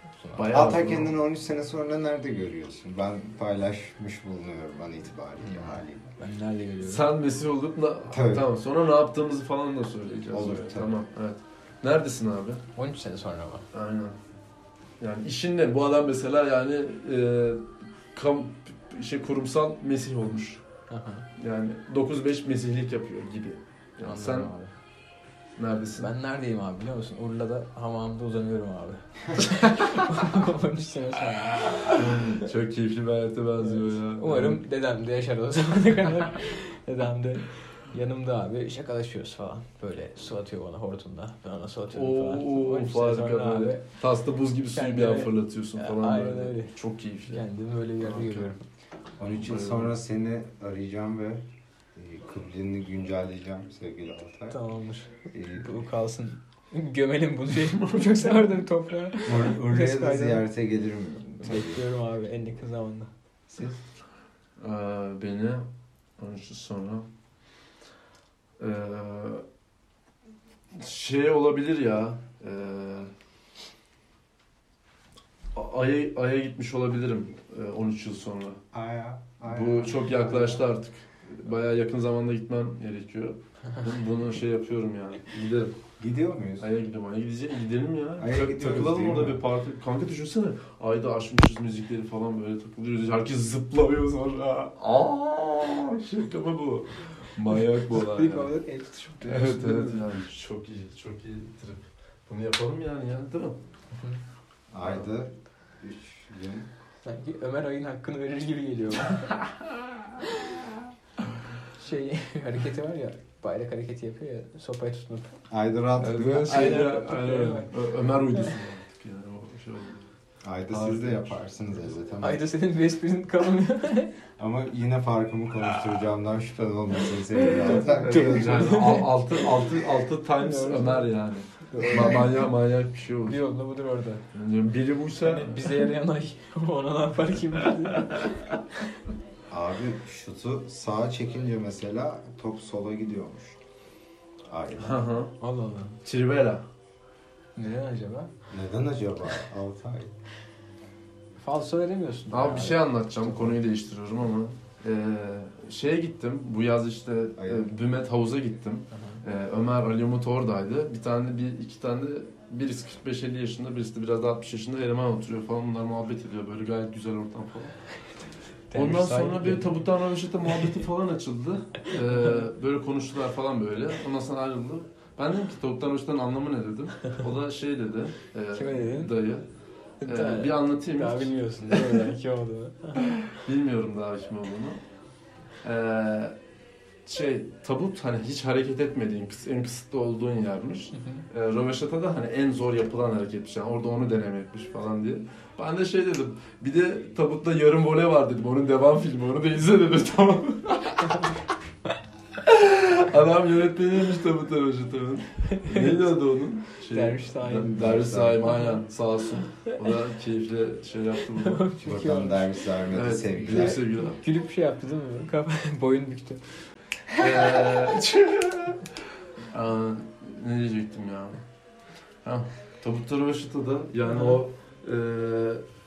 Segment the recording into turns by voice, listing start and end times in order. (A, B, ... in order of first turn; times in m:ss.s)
0:00.2-0:00.6 A
0:00.3-0:01.2 B
0:00.5-0:06.1 C
0:05.4-0:07.1 A
0:06.8-0:12.6 B
0:08.1-0:08.5 C
0:10.3-0:10.9 C
0:12.8-0:13.7 A
0:13.7-0:14.2 B
0:15.0-0:20.6 B
0:20.9-0:21.3 A
0:21.4-0:24.5 B
0:24.0-0:24.7 A
0:25.6-0:26.1 B
0:26.0-0:32.5 A
0:31.9-0:34.6 B
0:33.6-0:43.9 A
0:41.9-0:47.4 B
0:44.6-0:46.8 A
0:47.3-0:48.6 A
0:48.0-0:48.6 C
0:49.2-0:54.6 C
0:49.3-0:50.0 B
0:54.5-1:00.5 A
0:55.3-0:55.7 C
0:57.7-0:58.4 B
0:59.2-1:01.8 C
1:01.4-1:03.1 A
1:04.6-1:07.1 B
1:08.6-1:09.4 B
1:10.8-1:13.1 B
1:15.5-1:18.6 B
1:18.7-1:20.7 C
1:19.4-1:25.8 B
1:26.0-1:26.7 C
1:26.6-1:38.5 B
1:28.2-1:29.4 C
1:37.6-1:40.1 A
1:39.3-1:43.6 B
1:44.7-1:46.7 C
1:44.8-1:45.1 B
1:47.0-1:50.6 A
1:51.7-1:55.4 A
1:55.5-1:56.8 C
1:56.0-2:00.0 B
1:56.2-1:57.8 A
2:00.4-2:02.5 C
2:00.7-2:01.9 B
2:02.2-2:04.2 A
2:04.4-2:08.7 C
2:07.3-2:11.1 A
2:07.4-2:13.4 B
2:11.6-2:12.5 A
2:13.2-2:14.2 A
2:14.3-2:15.9 B
2:15.2-2:18.6 A
2:19.5-2:23.6 C
2:24.5-2:25.0 C
2:24.8-2:25.3 B
2:25.4-2:26.0 A
2:26.0-2:26.6 B
2:27.6-2:28.3 A
2:28.5-2:30.1 C
2:31.4-2:33.6 A
2:32.3-2:47.8 B
2:37.4-2:37.7 C
2:38.9-2:39.2 A
2:48.7-2:49.9 A
2:48.7-2:59.5 B
2:58.5-2:59.2 A
3:00.0-3:03.2 A
3:00.0-3:02.1 B
3:03.2-3:04.8 B
3:05.6-3:06.4 B
3:07.1-3:21.3 B
3:11.0-3:11.2 A
3:22.4-3:31.6 B
3:25.5-3:26.2 A
3:26.9-3:27.8 A
3:27.5-3:28.5 C
3:31.2-3:32.6 A
3:31.8-3:33.8 C
3:32.9-3:34.2 B
3:33.4-3:36.4 A
3:37.2-3:38.9 B
3:37.4-3:37.8 A
3:39.5-3:41.4 B
3:42.2-3:45.6 B
3:44.0-3:44.4 A